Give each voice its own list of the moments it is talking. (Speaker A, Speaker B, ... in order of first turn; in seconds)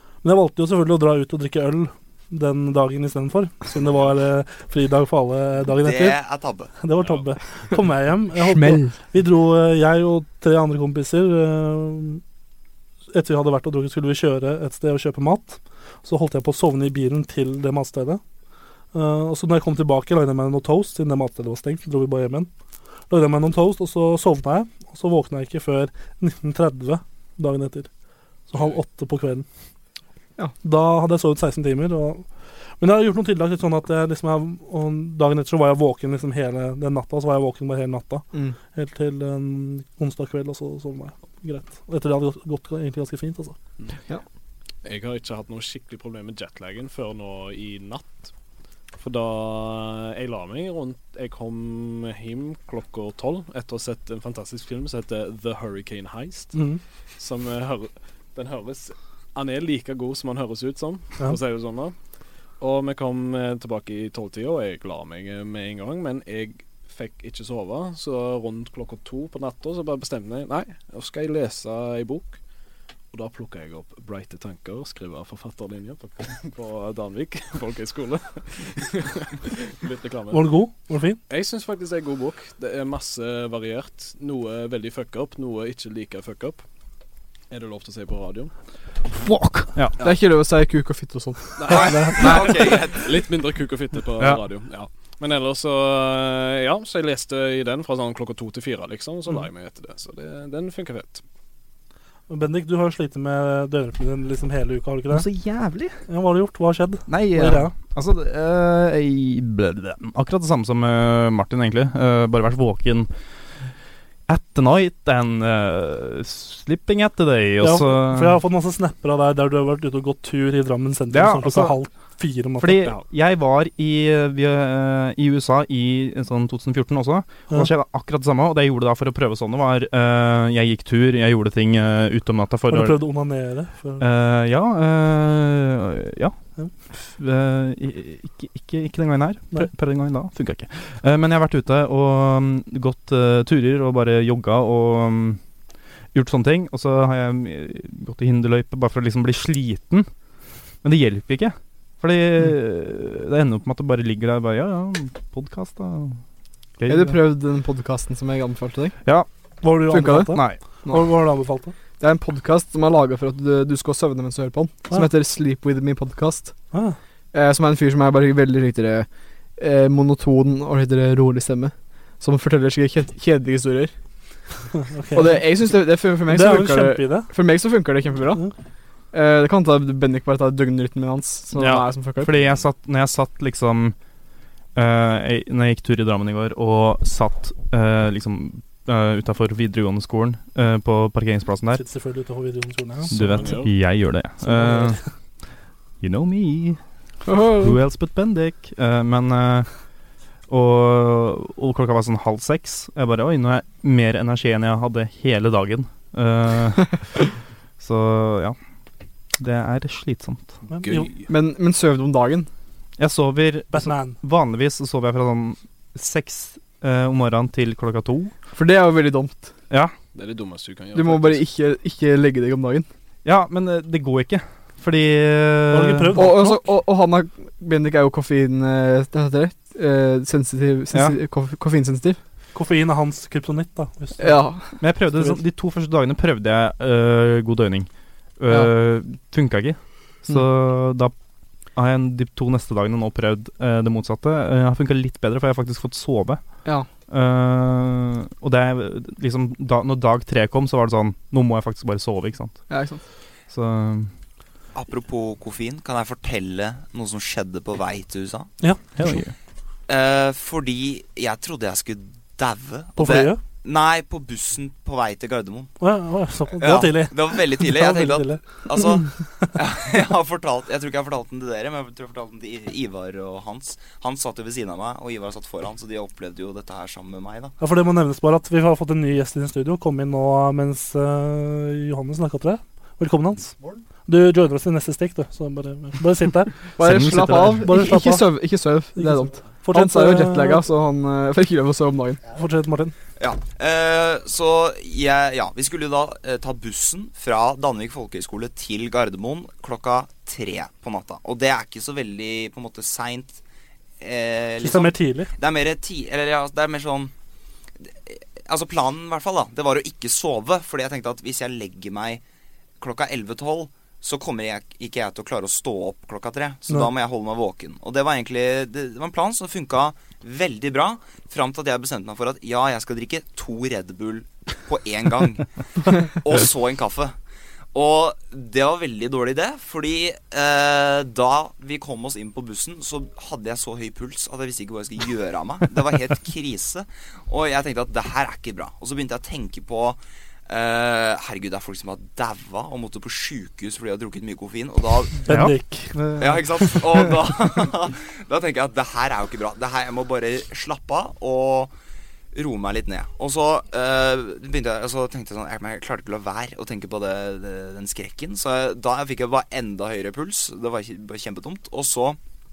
Speaker A: 0.2-6.2, 6.8-12.2, 13.1-18.2, 18.9-22.5, 23.1-27.9, 28.5-29.5, 30.6-32.3, 32.8-43.6, 56.5-56.8, 80.3-81.2, 102.3-105.3, 106.1-107.7, 117.6-122.9, 132.7-134.0, 159.6-161.7, 174.8-175.5, 176.3-177.3, 191.7-193.6, 194.4-195.0, 210.7-211.1, 213.7-214.2, 225.7-226.6, 232.5-235.4, 258.6-259.2, 263.0-263.4, 265.8-268.9, 277.6-283.5, 284.1-286.7, 287.5-288.3, 289.0-290.6, 292.3-292.9, 304.6-305.3, 345.3-346.0
Speaker B: 5.8-6.7, 91.7-93.1, 254.7-258.5, 259.9-265.7, 266.5-277.5, 293.2-303.4, 304.0-307.1, 307.8-312.2, 312.8-327.2, 327.7-345.3, 346.2-351.7, 352.3-362.2
Speaker C: 8.4-9.0, 90.0-91.9, 156.9-159.0, 159.9-161.1, 162.0-166.6, 167.3-173.9, 175.1-178.5, 179.1-182.4, 197.2-197.8, 211.3-212.5, 218.5-219.5, 220.9-222.9, 226.1-232.2, 234.2-234.8, 252.7-253.0, 286.8-292.2
Speaker D: 44.8-48.3, 49.0-56.6, 57.2-62.0, 62.6-72.4, 73.1-80.6, 81.3-86.6, 87.5-88.5, 91.6-101.2, 193.1-193.7, 210.8-211.3, 220.1-221.4
Speaker E: 89.1-90.0, 105.1-106.0, 107.1-113.1, 114.3-118.4, 121.1-121.8, 122.6-133.0, 134.0-136.3, 136.9-145.4, 146.1-150.1, 150.8-156.2, 156.8-157.2, 160.3-160.6, 181.5-183.9, 184.8-191.8, 193.1-195.0, 196.0-196.8, 197.6-199.7, 200.5-207.0, 207.8-208.6, 209.4-210.6, 213.0-218.3, 223.2-226.4, 234.8-241.1, 241.8-246.4, 247.1-252.6, 253.5-254.1, 259.0-259.3, 286.8-287.8, 345.3-347.0